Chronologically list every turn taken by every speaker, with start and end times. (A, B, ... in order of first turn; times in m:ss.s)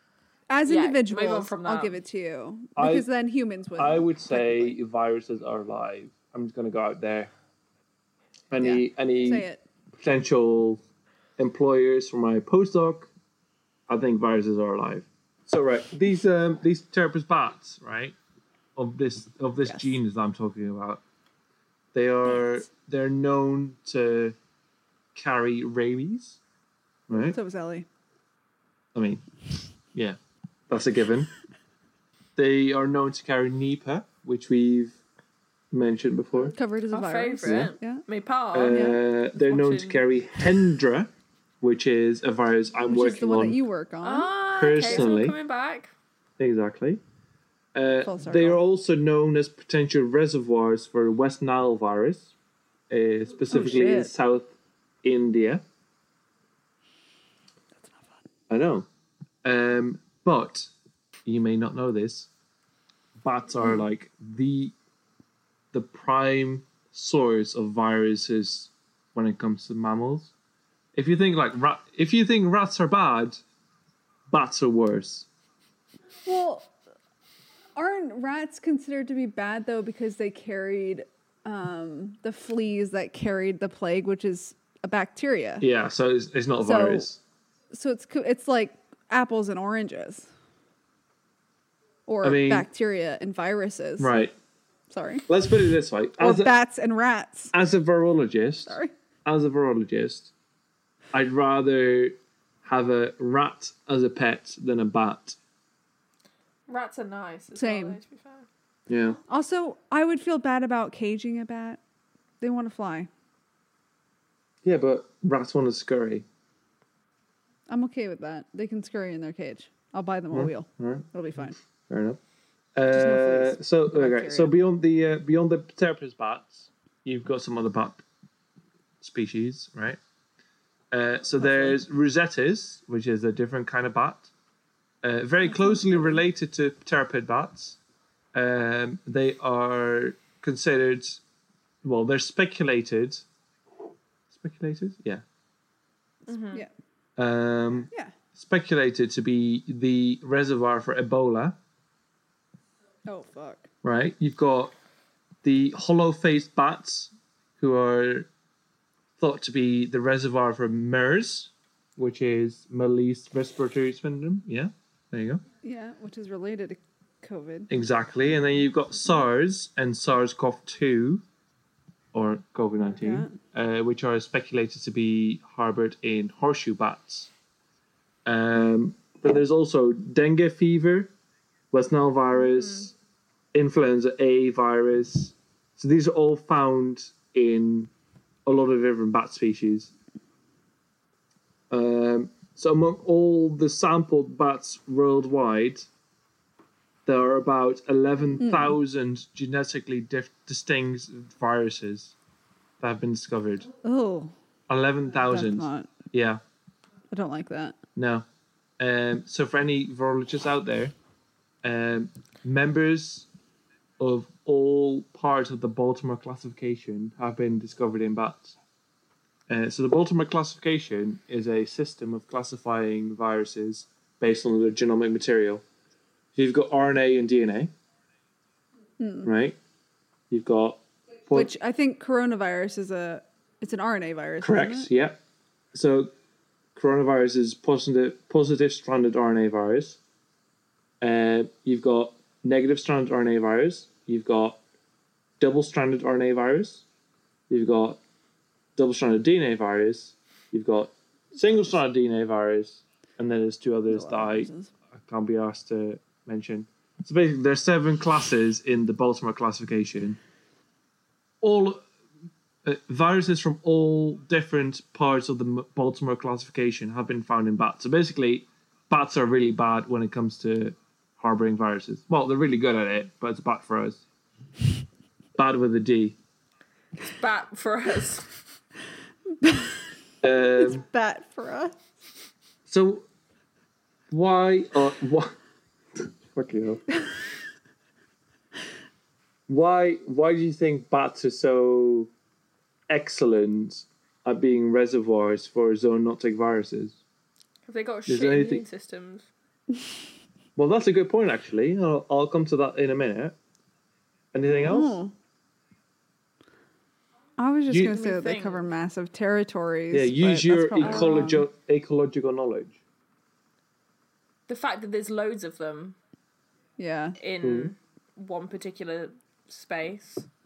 0:00.5-0:04.8 A
0:00.7-0:02.0 B
0:02.8-0:03.1 C
0:03.8-0:07.3 C
0:08.5-0:09.5 C
0:08.6-0:09.6 A
0:10.0-0:10.8 C
0:11.4-0:13.1 C
0:13.9-0:18.1 C
0:18.8-0:21.0 C
0:21.9-0:24.3 C
0:25.2-0:26.4 C
0:27.1-0:27.4 C
0:27.2-0:27.9 A
0:28.9-0:29.2 C
0:30.7-0:31.3 C
0:32.4-0:35.0 C
0:35.7-0:36.6 C
0:36.5-0:38.0 A
0:36.9-0:40.0 B
0:37.4-0:37.7 C
0:38.5-0:41.1 C
0:38.7-0:39.0 A
0:41.6-0:43.6 C
0:42.9-0:45.1 A
0:44.0-0:45.9 B
0:44.5-0:45.4 C
0:46.4-0:47.0 C
0:47.7-0:52.3 C
0:48.0-0:48.6 A
0:52.9-0:54.5 C
0:53.5-0:54.1 A
0:55.0-0:55.6 C
0:57.8-0:58.2 A
0:58.5-0:58.8 C
0:59.4-1:00.7 C
1:01.2-1:02.3 C
1:03.2-1:04.7 C
1:03.6-1:03.9 A
1:05.7-1:10.3 C
1:10.9-1:13.4 C
1:14.3-1:15.3 C
1:16.2-1:16.7 A
1:17.7-1:25.6 A
1:25.6-1:27.2 C
1:26.6-1:27.1 A
1:27.7-1:30.3 A
1:32.1-1:34.1 A
1:32.2-1:32.7 C
1:34.0-1:34.3 C
1:34.9-1:35.2 A
1:35.3-1:36.5 C
1:36.2-1:37.5 A
1:37.5-1:40.3 C
1:38.7-1:38.9 A
1:41.1-1:45.4 C
1:46.7-1:48.5 B
1:47.6-1:48.0 A
1:48.9-1:49.2 C
1:49.3-1:51.8 A
1:52.4-1:53.1 A
1:54.6-1:56.2 C
1:57.7-2:01.6 A
2:00.3-2:01.1 C
2:01.9-2:02.2 C
2:02.8-2:08.0 C
2:02.9-2:04.5 A
2:09.0-2:10.0 C
2:10.9-2:14.3 C
2:11.4-2:11.8 A
2:15.0-2:17.8 C
2:15.5-2:16.1 A
2:18.3-2:21.2 C
2:21.8-2:23.2 C
2:24.3-2:25.2 C
2:26.3-2:26.6 B
2:27.2-2:31.6 C
2:33.1-2:33.7 A
2:33.8-2:34.7 C
2:35.4-2:38.3 C
2:39.2-2:45.4 C
2:45.6-2:47.7 A
2:47.7-2:51.2 C
2:52.1-2:57.3 C
2:52.8-2:53.4 A
2:58.2-3:01.1 C
3:01.7-3:02.9 C
3:03.5-3:07.9 C
3:08.4-3:09.9 C
3:11.7-3:15.9 C
3:17.0-3:22.1 C
3:18.4-3:18.8 A
3:22.8-3:23.7 C
3:23.8-3:24.3 A
3:24.7-3:26.4 C
3:25.2-3:25.9 A
3:27.1-3:27.8 A
3:28.0-3:28.2 C
3:28.8-3:30.9 C
3:31.6-3:33.3 C
3:34.0-3:38.5 C
3:39.5-3:45.6 C
3:46.4-3:47.7 C
3:49.0-3:49.3 A
3:49.2-3:49.6 C
3:50.3-3:51.5 C
3:51.3-3:54.9 A
3:54.4-3:55.2 C
3:55.7-3:56.1 C
3:56.7-4:00.0 C
4:01.0-4:04.6 C
4:05.4-4:06.8 C
4:07.5-4:08.0 C
4:08.8-4:20.2 C
4:13.9-4:14.7 A
4:21.4-4:21.8 C
4:22.6-4:34.0 C
4:35.4-4:36.2 C
4:37.0-4:38.3 B
4:39.4-4:39.8 A
4:40.2-4:40.8 C
4:40.6-4:41.8 A
4:42.7-4:43.0 C
4:44.1-4:45.3 C
4:46.0-4:46.8 C
4:49.5-4:52.1 C
4:52.9-4:57.0 C
4:57.7-4:59.3 B
4:58.1-4:58.6 C
5:00.6-5:03.4 C
5:04.3-5:05.0 C
5:04.6-5:05.1 A
5:07.4-5:11.4 A
5:07.8-5:08.6 B
5:09.9-5:12.8 C
5:10.8-5:11.2 B
5:14.5-5:16.0 B
5:16.8-5:17.2 A
5:17.2-5:20.3 B
5:17.4-5:17.7 C